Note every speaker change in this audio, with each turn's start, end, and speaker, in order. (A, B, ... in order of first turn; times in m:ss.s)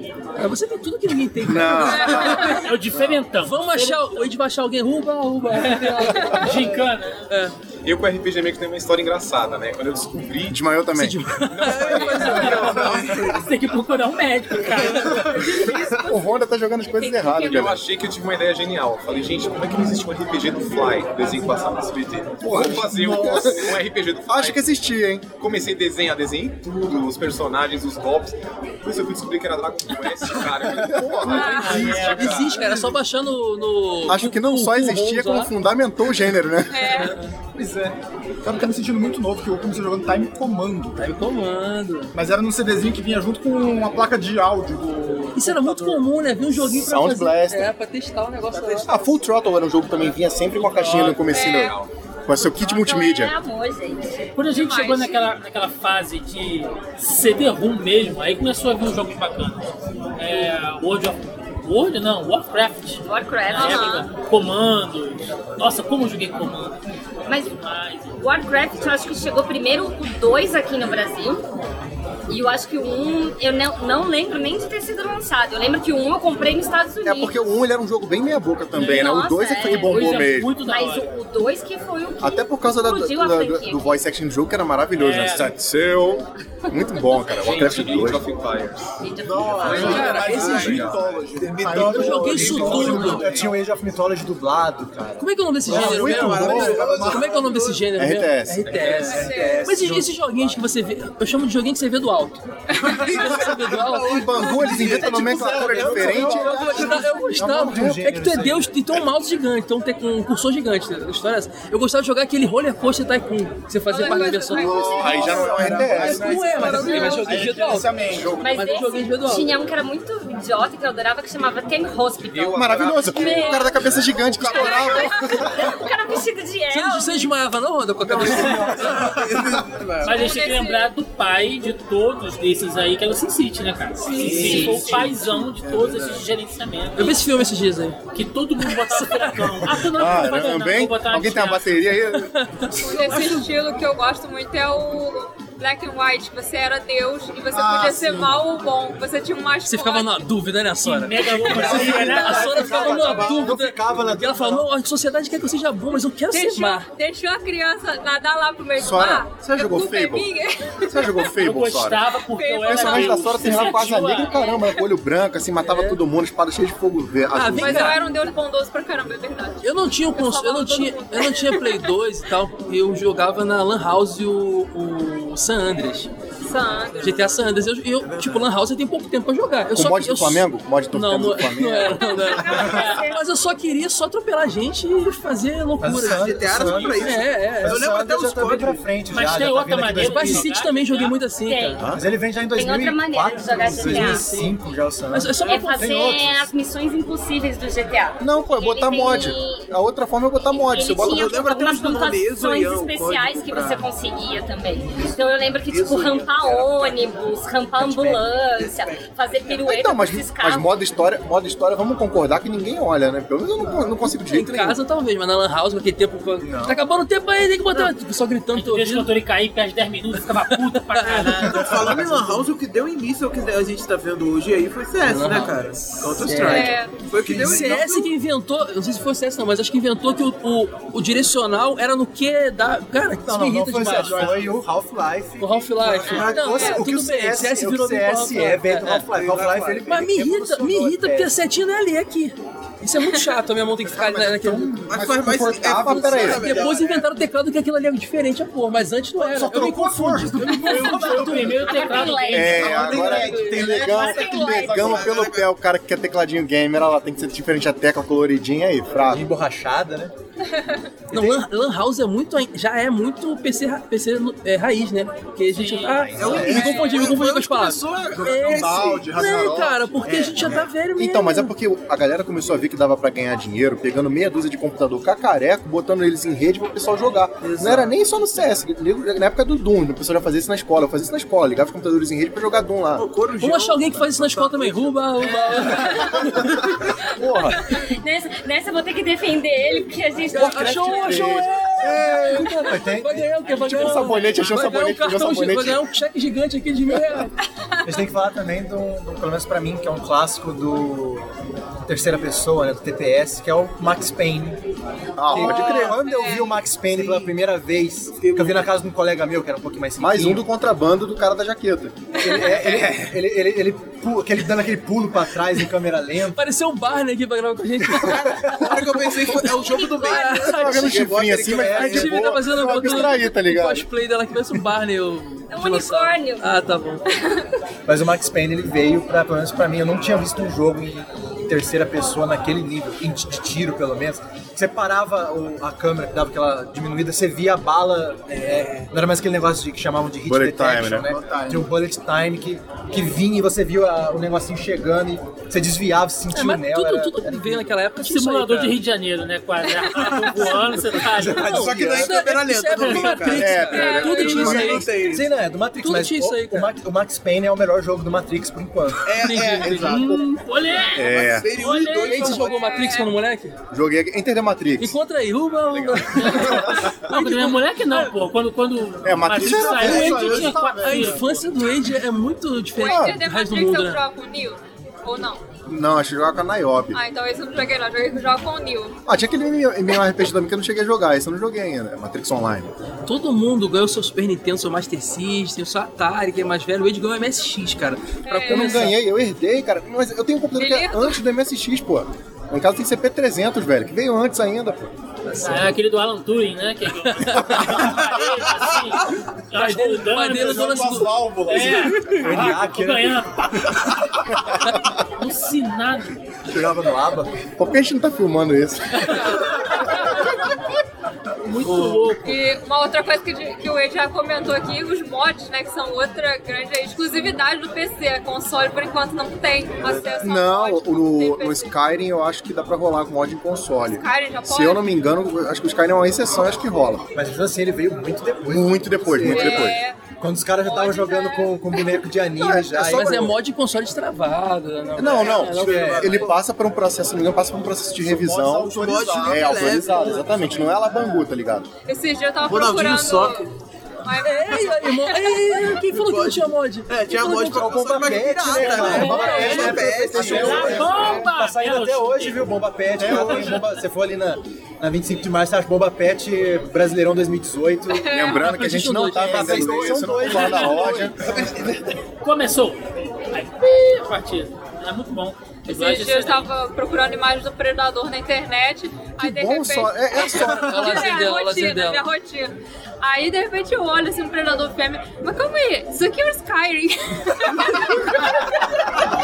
0:00.4-0:02.6 A
0:01.4-0:02.4 B
0:01.9-0:02.6 C
0:02.3-0:04.2 D
0:02.9-0:03.2 B
0:03.4-0:07.5 A
0:05.5-0:07.2 D
0:07.8-0:10.6 E
0:10.5-0:11.2 B
0:11.0-0:13.2 A
0:11.5-0:13.2 E
0:12.2-0:15.8 D
0:15.6-0:16.2 F
0:16.0-0:17.8 B
0:17.0-0:17.7 F
0:17.4-0:24.7 E
0:22.4-0:23.8 G
0:22.5-0:25.2 B
0:25.4-0:32.7 E
0:30.8-0:31.1 G
0:30.9-0:31.8 B
0:31.2-0:32.2 C
0:31.4-0:35.5 A
0:31.6-0:32.3 D
0:32.5-0:32.9 G
0:34.0-0:37.0 B
0:36.7-0:37.2 C
0:37.0-0:37.3 A
0:37.5-0:41.1 G
0:41.0-0:42.1 A
0:42.1-0:46.1 G
0:45.3-0:49.0 A
0:46.5-0:47.7 B
0:48.8-0:53.3 B
0:50.6-0:51.9 E
0:51.3-0:51.7 C
0:52.6-0:54.3 F
0:54.4-1:06.8 D
0:54.5-0:55.2 C
1:03.0-1:04.1 F
1:03.6-1:04.0 C
1:07.3-1:07.6 F
1:07.6-1:08.2 D
1:08.2-1:11.4 F
1:12.3-1:17.4 F
1:17.0-1:20.5 B
1:18.7-1:24.0 F
1:19.8-1:21.1 D
1:22.2-1:28.2 B
1:25.0-1:25.5 D
1:26.7-1:27.2 F
1:27.4-1:29.0 E
1:29.0-1:30.6 F
1:29.2-1:33.5 G
1:29.5-1:31.3 E
1:29.7-1:33.5 H
1:29.7-1:30.9 A
1:31.6-1:36.2 I
1:31.9-1:33.3 A
1:35.2-1:44.7 A
1:35.6-1:37.9 H
1:35.7-1:37.0 B
1:36.0-1:37.4 G
1:37.9-1:38.8 B
1:38.8-1:40.1 I
1:38.8-1:39.4 H
1:39.1-1:39.6 C
1:42.9-1:45.2 H
1:43.9-1:47.9 B
1:44.5-1:48.8 I
1:44.7-1:47.0 G
1:46.3-1:59.5 A
1:53.9-1:55.6 C
1:54.5-1:57.1 B
1:54.8-1:58.4 G
1:55.1-1:57.4 H
1:58.4-2:07.2 F
2:02.3-2:04.1 E
2:02.5-2:05.4 B
2:03.3-2:03.7 C
2:04.3-2:05.5 C
2:06.7-2:09.1 A
2:08.0-2:08.8 G
2:08.2-2:10.2 H
2:08.2-2:09.0 I
2:10.0-2:17.3 D
2:10.1-2:10.9 C
2:14.1-2:16.2 H
2:14.4-2:15.0 A
2:17.0-2:18.0 A
2:18.1-2:21.8 D
2:18.6-2:19.7 A
2:19.9-2:22.3 B
2:22.1-2:22.7 A
2:22.8-2:30.3 C
2:23.0-2:23.4 H
2:27.5-2:28.3 G
2:29.6-2:36.9 A
2:30.8-2:32.9 D
2:31.2-2:33.0 C
2:31.4-2:34.7 I
2:36.3-2:41.4 C
2:38.8-2:40.3 B
2:40.8-2:42.0 B
2:41.4-2:44.4 D
2:42.3-2:44.8 C
2:42.6-2:48.0 B
2:45.6-2:46.0 A
2:47.3-2:48.0 A
2:47.5-2:49.6 C
2:49.6-2:56.1 A
2:50.1-2:52.0 C
2:56.4-2:57.4 C
2:57.0-3:07.8 A
2:58.0-2:58.4 H
2:59.7-3:02.0 B
3:01.9-3:03.2 C
3:02.3-3:03.1 F
3:02.7-3:03.0 D
3:05.8-3:10.5 I
3:06.0-3:08.8 H
3:09.1-3:11.2 D
3:10.0-3:11.8 A
3:11.4-3:11.9 F
3:11.9-3:16.5 I
3:12.5-3:14.4 F
3:13.8-3:14.2 A
3:15.1-3:16.1 A
3:15.4-3:19.7 F
3:18.2-3:21.5 B
3:20.5-3:30.7 F
3:21.0-3:23.9 H
3:25.7-3:26.6 I
3:25.9-3:26.9 H
3:27.8-3:28.2 I
3:28.6-3:29.6 H
3:29.6-3:34.8 B
3:34.2-3:39.1 A
3:36.4-3:36.7 H
3:38.5-3:41.7 D
3:40.9-3:41.6 A
3:41.1-3:48.1 H
3:42.0-3:42.4 I
3:45.0-3:46.8 A
3:46.4-3:46.9 C
3:47.2-3:47.9 I
3:47.4-3:54.4 A
3:53.2-4:01.4 I
3:53.8-3:54.5 G
3:55.4-3:59.0 A
3:56.1-3:56.4 F
3:56.4-3:56.8 C
3:58.8-4:00.0 H
3:59.9-4:04.8 A
4:03.9-4:06.8 B
4:04.0-4:05.7 G
4:04.9-4:07.1 H
4:05.9-4:12.0 A
4:09.2-4:11.7 G
4:09.6-4:11.6 I
4:10.6-4:12.7 D
4:11.6-4:15.3 F
4:12.3-4:19.2 B
4:12.5-4:14.6 I
4:14.4-4:15.5 H
4:19.0-4:20.1 I
4:21.1-4:21.4 I
4:21.1-4:31.5 A
4:25.5-4:26.1 D
4:26.2-4:30.7 H
4:26.2-4:26.8 I
4:28.1-4:30.1 G
4:28.6-4:29.7 B
4:31.0-4:43.1 B
4:37.4-4:37.9 H
4:43.0-4:46.5 H
4:43.4-4:46.7 A
4:47.2-4:47.6 B
4:47.3-4:51.5 F
4:50.3-4:57.3 A
4:50.4-4:52.7 B
4:50.5-4:51.3 I
4:51.9-4:53.5 I
4:53.5-4:55.8 B
4:53.7-4:54.4 D
4:57.8-5:01.3 I
5:01.8-5:04.6 I
5:05.2-5:05.9 B
5:05.3-5:10.4 I
5:05.6-5:06.6 C
5:06.9-5:07.3 H
5:08.1-5:08.7 H
5:10.0-5:12.0 B
5:12.2-5:16.4 I
5:16.3-5:27.0 A
5:17.9-5:22.9 H
5:18.3-5:18.7 I
5:19.7-5:20.4 F
5:20.4-5:23.9 B
5:21.1-5:22.2 I
5:25.5-5:26.4 F
5:27.9-5:47.7 I
5:38.4-5:38.8 A
5:40.3-5:41.1 B
5:41.2-5:41.5 G
5:46.3-5:48.8 A
5:48.0-5:51.6 D
5:50.6-5:52.1 I
5:51.4-5:55.0 A
5:51.4-5:53.6 H
5:53.4-5:55.0 B
5:53.6-5:54.7 C
5:54.4-5:55.3 H
5:55.0-5:59.1 I
5:55.8-5:56.7 A
5:59.0-6:00.2 H
5:59.2-6:00.1 A
5:59.4-6:00.2 B
5:59.7-6:02.4 D
6:00.9-6:01.5 B
6:01.0-6:02.6 H
6:02.1-6:03.5 A
6:02.3-6:03.1 C
6:03.7-6:05.0 B
6:04.8-6:07.7 A
6:05.7-6:06.9 B
6:06.1-6:11.5 D
6:09.0-6:10.3 B
6:09.5-6:11.2 G
6:09.6-6:10.6 H
6:10.8-6:14.0 A
6:12.7-6:15.4 C
6:12.9-6:13.2 B
6:15.7-6:17.0 B
6:16.9-6:19.0 C
6:19.1-6:22.7 B
6:23.0-6:29.0 A
6:28.2-6:28.9 C
6:28.5-6:34.9 B
6:30.5-6:31.2 C
6:35.2-6:35.7 A
6:35.4-6:43.8 D
6:37.0-6:37.9 A
6:39.5-6:42.2 A
6:40.3-6:42.2 G
6:42.1-6:43.3 I
6:45.2-6:46.1 D
6:46.5-6:47.3 I
6:47.6-6:49.3 B
6:49.4-6:50.2 C
6:51.4-6:52.3 D
6:51.6-6:52.2 A
6:52.2-7:01.7 C
7:00.2-7:07.0 B
7:03.8-7:05.0 C
7:07.1-7:13.3 I
7:08.5-7:09.8 B
7:09.2-7:10.0 C
7:10.6-7:12.1 C
7:12.4-7:13.3 B
7:12.8-7:16.1 A
7:15.0-7:21.7 B
7:15.0-7:16.4 H
7:15.6-7:16.3 I
7:18.1-7:19.9 G
7:18.2-7:21.2 H
7:21.8-7:23.5 C
7:22.4-7:23.4 H
7:24.0-7:25.6 C
7:24.2-7:29.5 A
7:25.8-7:31.0 H
7:27.4-7:38.2 I
7:28.8-7:32.4 D
7:29.0-7:31.2 B
7:33.0-7:33.6 B
7:33.1-7:33.6 D
7:37.9-7:38.6 C
7:38.1-7:41.2 B
7:38.3-7:39.7 A
7:39.2-7:41.3 I
7:40.5-7:40.8 C
7:41.2-7:41.9 H
7:42.2-7:46.5 D
7:45.7-7:58.5 C
7:49.2-7:51.1 B
7:50.4-7:52.0 A